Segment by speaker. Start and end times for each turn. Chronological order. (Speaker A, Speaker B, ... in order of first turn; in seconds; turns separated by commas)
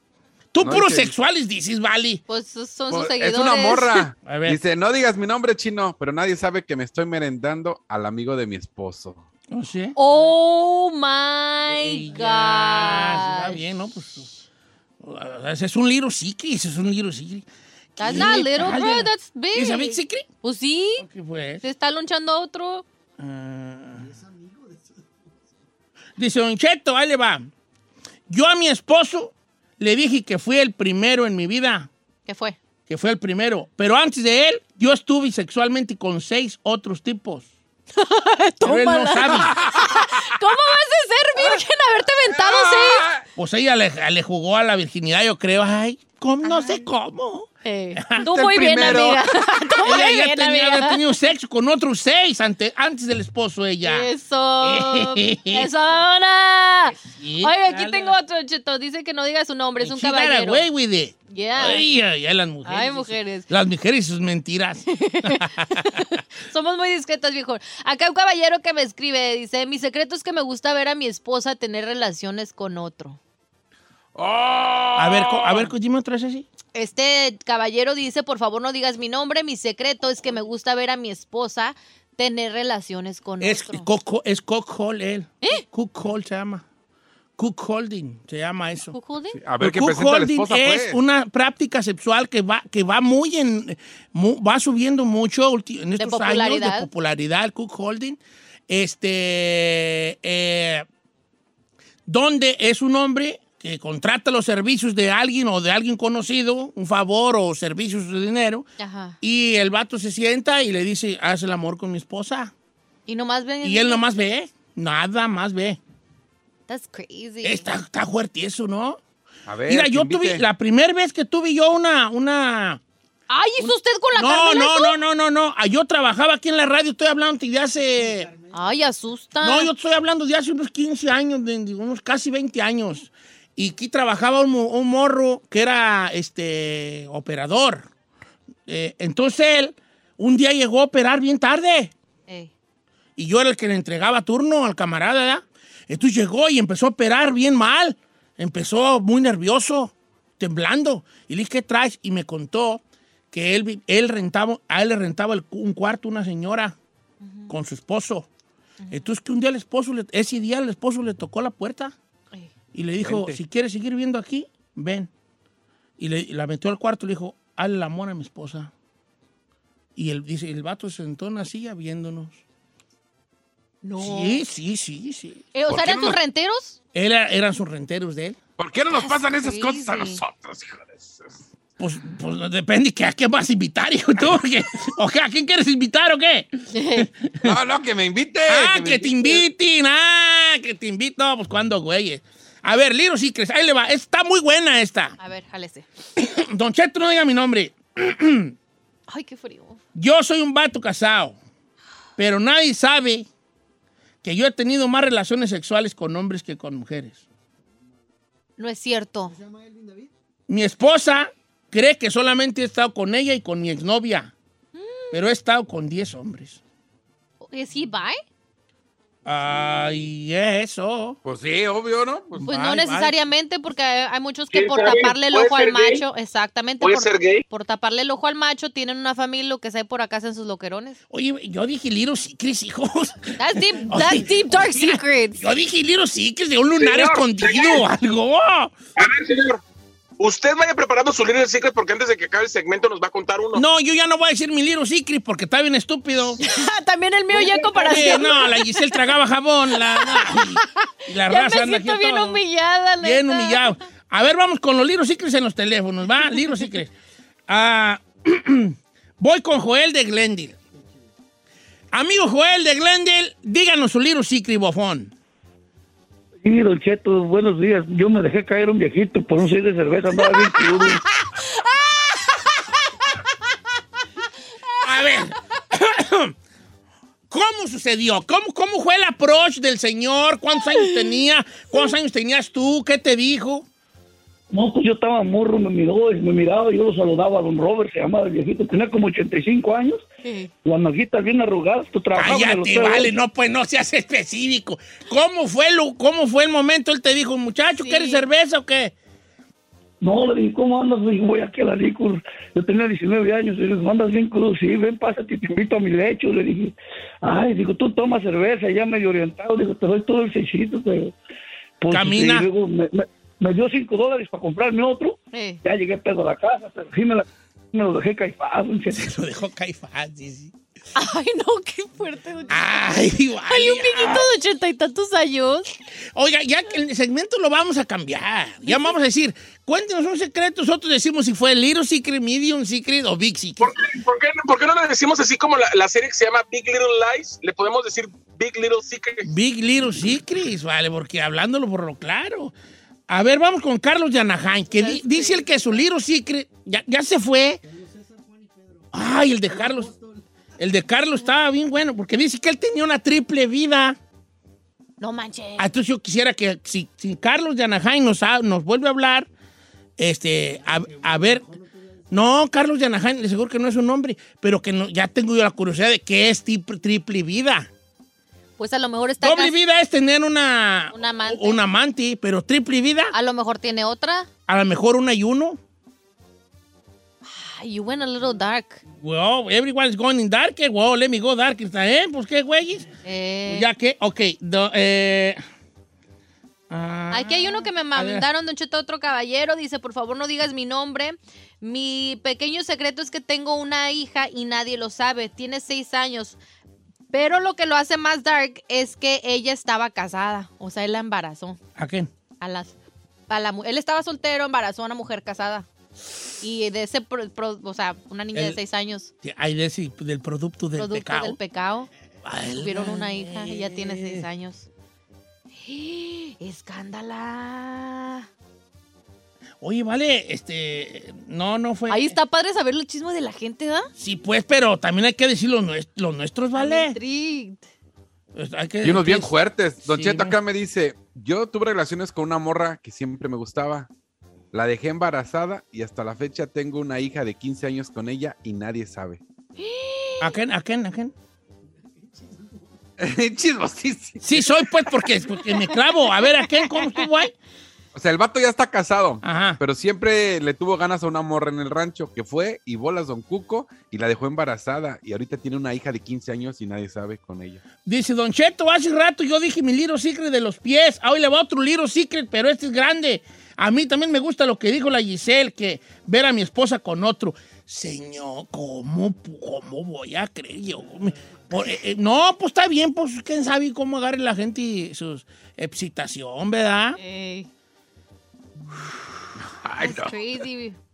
Speaker A: 0.5-2.2, Speaker B: 0.6-1.1, Speaker C: 2.3-4.1, Speaker B: 2.9-9.3, Speaker A: 4.2-4.6, Speaker A: 9.5-10.0, Speaker C: 10.0-13.6, Speaker A: 11.7-14.4, Speaker A: 15.0-17.4, Speaker A: 18.0-20.3, Speaker C: 18.0-21.0, Speaker A: 21.0-21.6, Speaker C: 21.6-22.9, Speaker A: 23.2-24.2, Speaker A: 26.2-27.5, Speaker A: 28.3-31.9, Speaker C: 32.3-32.6, Speaker A: 32.9-37.5, Speaker C: 38.0-43.1, Speaker A: 38.6-39.6, Speaker B: 39.5-40.0, Speaker B: 42.3-43.3, Speaker A: 43.4-48.3, Speaker C: 46.4-46.8, Speaker C: 47.6-51.0, Speaker B: 48.2-49.2, Speaker A: 49.8-54.1, Speaker C: 53.8-60.6, Speaker A: 54.6-55.7, Speaker A: 57.0-58.2, Speaker A: 59.8-66.1, Speaker C: 61.3-61.9, Speaker C: 62.7-63.5, Speaker C: 64.9-73.2, Speaker B: 74.2-75.7, Speaker A: 75.0-76.5, Speaker C: 76.8-83.9, Speaker A: 83.4-86.6, Speaker A: 87.4-89.0, Speaker C: 88.9-89.4, Speaker B: 89.4-91.0, Speaker A: 89.6-100.9, Speaker C: 96.0-96.9, Speaker A: 102.1-108.7, Speaker C: 108.8-109.2, Speaker A: 109.2-112.5, Speaker C: 113.1-114.0, Speaker A: 113.6-115.8, Speaker C: 116.7-117.7, Speaker A: 117.4-119.0, Speaker B: 119.5-120.5, Speaker A: 119.7-122.8, Speaker C: 123.3-125.0, Speaker A: 123.6-128.3, Speaker C: 128.5-129.7, Speaker A: 129.4-137.9, Speaker A: 138.7-141.9, Speaker A: 143.2-156.8, Speaker C: 157.2-157.5, Speaker A: 157.5-158.3, Speaker C: 158.8-159.1, Speaker A: 158.9-161.9, Speaker A: 162.7-165.1, Speaker B: 163.0-163.4, Speaker A: 166.0-168.7, Speaker A: 170.0-172.4, Speaker C: 173.8-174.4, Speaker A: 174.0-175.5, Speaker C: 175.5-176.8, Speaker B: 175.7-176.2, Speaker A: 176.9-178.4, Speaker B: 178.6-181.4, Speaker C: 178.9-180.2, Speaker A: 181.8-187.5, Speaker C: 186.7-187.1, Speaker B: 187.4-189.4, Speaker A: 188.5-195.2, Speaker C: 195.2-195.9, Speaker A: 196.2-198.5, Speaker C: 199.1-199.8, Speaker A: 199.9-201.4, Speaker A: 202.2-203.3, Speaker A: 204.2-207.2, Speaker C: 208.6-209.4, Speaker A: 210.5-214.3, Speaker C: 214.8-215.2, Speaker A: 215.1-216.6, Speaker C: 217.4-218.2, Speaker A: 219.2-221.2, Speaker B: 221.2-222.5, Speaker A: 222.4-223.2, Speaker C: 222.4-231.0, Speaker D: 224.5-226.0, Speaker D: 226.8-227.4, Speaker A: 231.1-238.7, Speaker C: 233.4-235.4, Speaker D: 236.8-237.8, Speaker D: 239.0-239.6, Speaker D: 240.2-243.6, Speaker A: 243.6-246.4, Speaker C: 246.4-249.1, Speaker A: 247.4-252.4, Speaker C: 249.8-253.8, Speaker A: 253.0-256.9, Speaker A: 257.5-260.6, Speaker A: 261.9-265.1, Speaker E: 266.4-271.0, Speaker A: 274.8-276.3, Speaker A: 277.3-283.7, Speaker E: 284.5-290.0, Speaker C: 290.2-290.5, Speaker E: 290.6-293.1, Speaker A: 292.1-298.9, Speaker C: 297.8-298.2, Speaker E: 300.0-311.1, Speaker E: 311.8-319.0, Speaker A: 311.9-312.5, Speaker C: 315.3-315.6, Speaker A: 318.9-320.5, Speaker C: 320.9-322.9, Speaker A: 322.5-324.3, Speaker C: 323.5-325.7, Speaker A: 326.1-333.7, Speaker C: 328.7-328.9, Speaker D: 333.6-339.3, Speaker A: 339.2-342.5, Speaker A: 343.1-347.6, Speaker C: 344.7-345.8, Speaker A: 348.9-350.0, Speaker A: 350.6-354.0, Speaker C: 355.0-355.7, Speaker A: 355.6-359.3, Speaker A: 360.0-361.6, Speaker A: 362.1-367.7, Speaker C: 368.6-369.6, Speaker A: 369.2-373.1, Speaker C: 370.9-371.6, Speaker C: 373.1-374.3, Speaker A: 374.5-375.6, Speaker C: 377.2-378.8, Speaker A: 379.0-382.9, Speaker C: 383.1-383.7, Speaker A: 383.5-385.4, Speaker A: 386.7-388.3, Speaker C: 387.1-396.4, Speaker C: 397.1-401.6, Speaker A: 401.8-402.1, Speaker C: 402.4-402.7, Speaker C: 403.3-405.7, Speaker C: 406.4-409.1, Speaker A: 409.2-411.4, Speaker C: 410.8-411.9, Speaker A: 412.2-414.3, Speaker C: 412.6-414.7, Speaker C: 415.6-418.3, Speaker A: 419.6-422.2, Speaker C: 421.9-423.9, Speaker A: 424.0-427.0, Speaker C: 426.6-427.6, Speaker A: 428.4-430.4, Speaker B: 428.8-433.9, Speaker B: 434.5-439.2, Speaker C: 439.6-440.4, Speaker A: 440.2-441.1, Speaker B: 443.0-444.9, Speaker A: 444.2-447.3, Speaker B: 447.9-457.6, Speaker A: 449.2-449.6, Speaker A: 457.9-477.0, Speaker C: 477.0-477.5, Speaker B: 479.6-480.2, Speaker C: 479.8-480.8